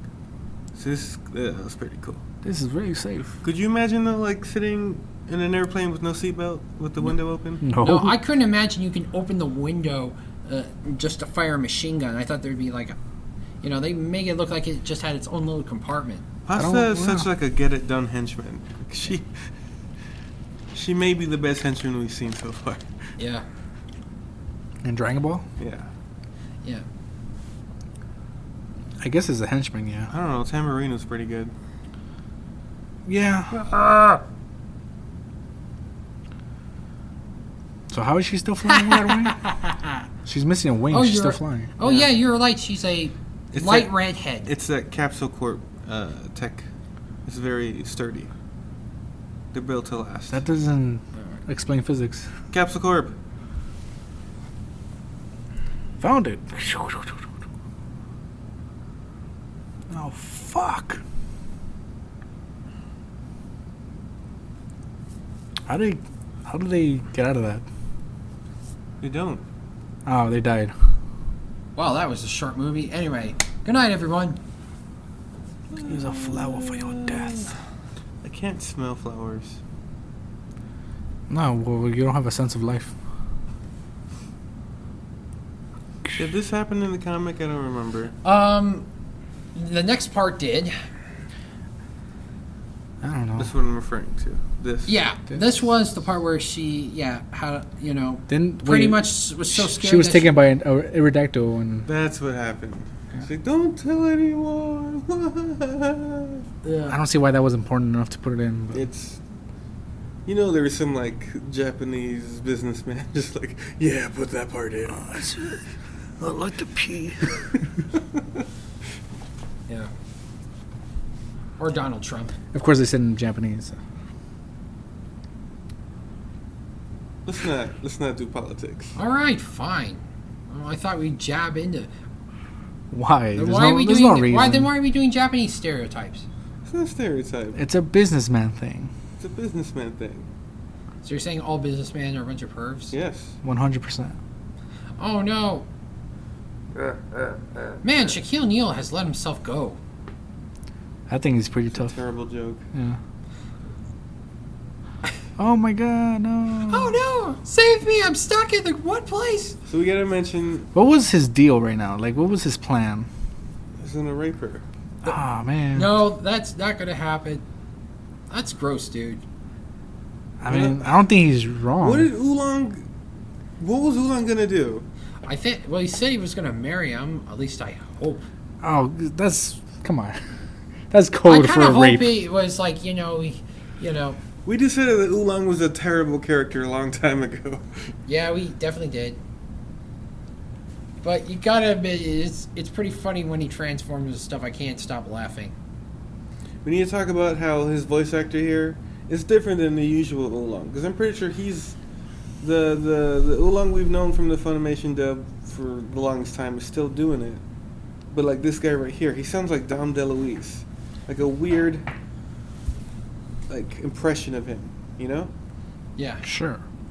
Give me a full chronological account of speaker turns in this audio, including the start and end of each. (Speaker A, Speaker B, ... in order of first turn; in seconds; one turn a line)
Speaker A: 0.7-2.2
Speaker B: 2.4-3.4
Speaker A: 3.4-7.6
Speaker B: 7.6-8.2
Speaker C: 7.8-12.9
Speaker C: 13.6-16.2
Speaker A: 16.4-19.5
Speaker B: 16.6-17.3
Speaker A: 20.7-22.8
Speaker C: 23.2-23.4
Speaker B: 24.8-25.4
Speaker A: 25.6-25.9
Speaker B: 29.0-30.1
Speaker A: 30.1-31.5
Speaker B: 33.0-33.5
Speaker C: 33.6-34.2
Speaker B: 37.9-39.4
Speaker C: 38.7-39.9
Speaker B: 40.2-41.7
Speaker C: 40.9-44.5
Speaker A: 41.8-42.1
Speaker A: 43.5-43.9
Speaker A: 44.4-46.7
Speaker A: 47.2-48.3
Speaker A: 49.5-50.4
Speaker B: 50.3-52.3
Speaker A: 52.5-53.1
Speaker B: 56.0-57.2
Speaker B: 59.9-61.0
Speaker B: 65.7-67.6
Speaker A: 69.0-69.4
Speaker B: 70.0-70.7
Speaker C: 71.8-74.4
Speaker A: 75.7-77.5
Speaker B: 75.8-77.5
Speaker A: 78.2-79.6
Speaker B: 81.3-82.9
Speaker A: 86.2-88.1
Speaker C: 88.2-88.8
Speaker C: 89.5-90.7
Speaker B: 93.0-93.5
Speaker A: 93.4-95.0
Speaker C: 94.8-100.3
Speaker B: 98.3-101.9
Speaker A: 101.9-106.4
Speaker C: 106.6-107.0
Speaker B: 106.9-108.8
Speaker A: 108.7-109.2
Speaker A: 110.2-115.1
Speaker B: 114.9-115.6
Speaker B: 116.2-117.6
Speaker C: 121.6-122.3
Speaker B: 122.5-123.8
Speaker A: 127.2-128.9
Speaker C: 128.9-131.9
Speaker B: 132.9-134.7
Speaker C: 133.3-136.2
Speaker A: 136.6-137.6
Speaker B: 137.5-138.9
Speaker A: 139.2-140.3
Speaker C: 141.0-142.9
Speaker A: 142.9-143.3
Speaker B: 143.4-144.2
Speaker C: 145.0-145.7
Speaker A: 146.7-147.4
Speaker C: 147.8-149.8
Speaker B: 151.1-151.9
Speaker A: 151.7-152.6
Speaker B: 152.7-153.0
Speaker B: 155.4-156.9
Speaker C: 156.7-159.6
Speaker A: 159.7-160.7
Speaker B: 160.7-163.1
Speaker A: 163.8-164.6
Speaker B: 165.0-166.0
Speaker C: 165.7-167.4
Speaker C: 168.3-169.2
Speaker B: 170.4-172.1
Speaker A: 170.5-171.0
Speaker A: 171.8-172.8
Speaker A: 173.6-174.8
Speaker C: 175.2-178.2
Speaker B: 178.6-180.2
Speaker B: 180.9-182.1
Speaker C: 181.2-184.2
Speaker A: 184.4-187.8
Speaker C: 188.1-189.2
Speaker C: 191.0-195.5
Speaker A: 196.6-201.8
Speaker A: 202.4-207.4
Speaker A: 208.1-211.9
Speaker A: 213.5-215.3
Speaker C: 216.0-216.2
Speaker B: 216.2-216.6